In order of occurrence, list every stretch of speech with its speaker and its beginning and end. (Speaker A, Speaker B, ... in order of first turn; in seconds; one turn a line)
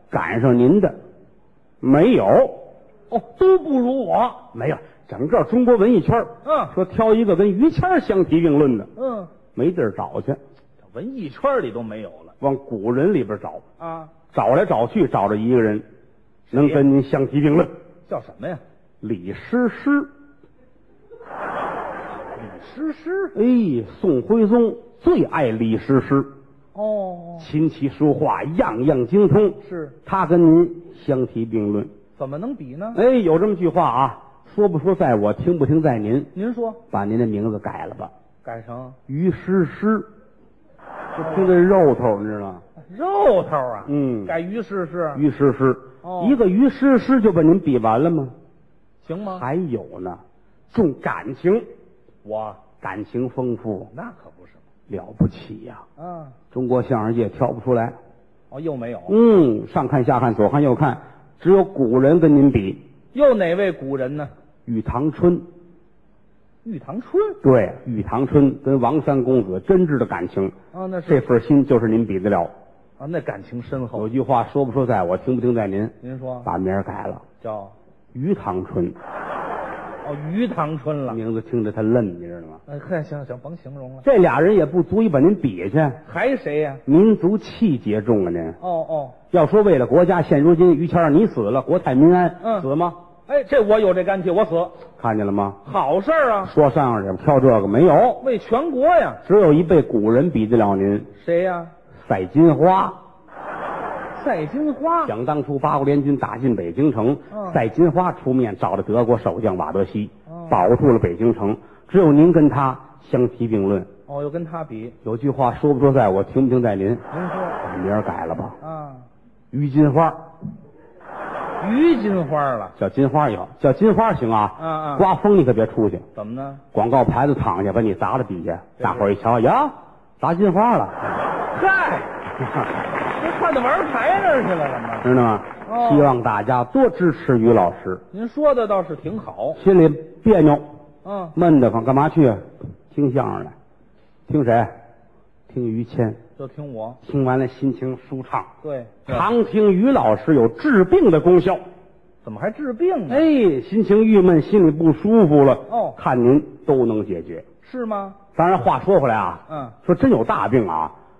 Speaker A: 0.1-1.0
Speaker A: 1.8-2.7
Speaker B: 3.1-4.5
Speaker A: 4.5-8.9
Speaker B: 6.4-6.7
Speaker B: 8.9-9.3
Speaker A: 9.5-10.4
Speaker B: 10.9-12.3
Speaker A: 12.4-13.6
Speaker B: 13.8-14.1
Speaker A: 14.3-15.8
Speaker B: 16.5-16.8
Speaker A: 16.5-17.7
Speaker B: 18.1-18.6
Speaker A: 19.0-20.1
Speaker B: 22.4-23.3
Speaker A: 23.3-26.3
Speaker B: 26.7-27.5
Speaker A: 27.4-31.9
Speaker B: 29.6-30.0
Speaker B: 32.2-33.0
Speaker A: 32.9-36.3
Speaker B: 36.3-36.8
Speaker A: 36.9-38.1
Speaker B: 38.4-39.0
Speaker A: 39.1-40.1
Speaker A: 41.1-42.6
Speaker B: 41.2-41.5
Speaker B: 42.8-45.2
Speaker A: 43.8-44.4
Speaker A: 45.1-48.3
Speaker B: 46.0-46.4
Speaker B: 49.0-49.5
Speaker A: 49.3-51.7
Speaker B: 52.2-52.6
Speaker A: 52.8-53.9
Speaker B: 53.9-54.6
Speaker A: 54.9-55.8
Speaker B: 56.0-56.4
Speaker A: 56.5-58.0
Speaker B: 58.5-59.1
Speaker A: 59.1-62.8
Speaker B: 63.1-64.3
Speaker A: 64.7-65.4
Speaker B: 66.6-67.4
Speaker A: 67.4-70.5
Speaker B: 70.7-71.2
Speaker A: 71.0-72.5
Speaker B: 73.0-74.1
Speaker A: 73.9-77.2
Speaker B: 76.0-76.5
Speaker B: 77.4-77.7
Speaker A: 78.1-79.0
Speaker B: 80.0-81.2
Speaker A: 81.1-82.6
Speaker B: 82.7-84.0
Speaker A: 84.0-86.0
Speaker B: 86.0-86.8
Speaker A: 86.8-88.6
Speaker B: 88.6-89.2
Speaker A: 89.3-93.0
Speaker B: 92.4-92.7
Speaker B: 93.3-94.8
Speaker A: 95.0-95.6
Speaker B: 95.6-96.5
Speaker A: 96.4-98.2
Speaker B: 98.2-99.2
Speaker A: 99.2-101.1
Speaker B: 101.2-101.7
Speaker A: 102.0-103.0
Speaker B: 104.1-105.1
Speaker A: 105.0-113.9
Speaker B: 107.3-107.6
Speaker B: 110.3-110.6
Speaker B: 114.1-115.0
Speaker A: 115.0-117.0
Speaker B: 117.1-117.6
Speaker A: 117.6-118.6
Speaker B: 118.6-119.0
Speaker A: 119.5-120.2
Speaker B: 121.6-122.8
Speaker A: 122.8-126.0
Speaker B: 124.6-125.1
Speaker B: 126.1-126.6
Speaker A: 126.7-131.2
Speaker B: 128.8-129.1
Speaker B: 131.5-132.2
Speaker B: 133.2-135.1
Speaker A: 135.0-138.0
Speaker B: 135.7-136.1
Speaker B: 138.1-139.6
Speaker A: 139.5-140.6
Speaker B: 141.0-141.3
Speaker A: 141.3-143.5
Speaker A: 144.3-144.7
Speaker A: 145.5-146.2
Speaker B: 146.4-147.0
Speaker A: 147.0-148.5
Speaker B: 148.6-149.3
Speaker A: 149.1-151.6
Speaker B: 152.2-153.2
Speaker A: 153.1-157.4
Speaker B: 155.7-156.0
Speaker B: 157.6-158.2
Speaker A: 158.3-160.9
Speaker B: 159.5-159.8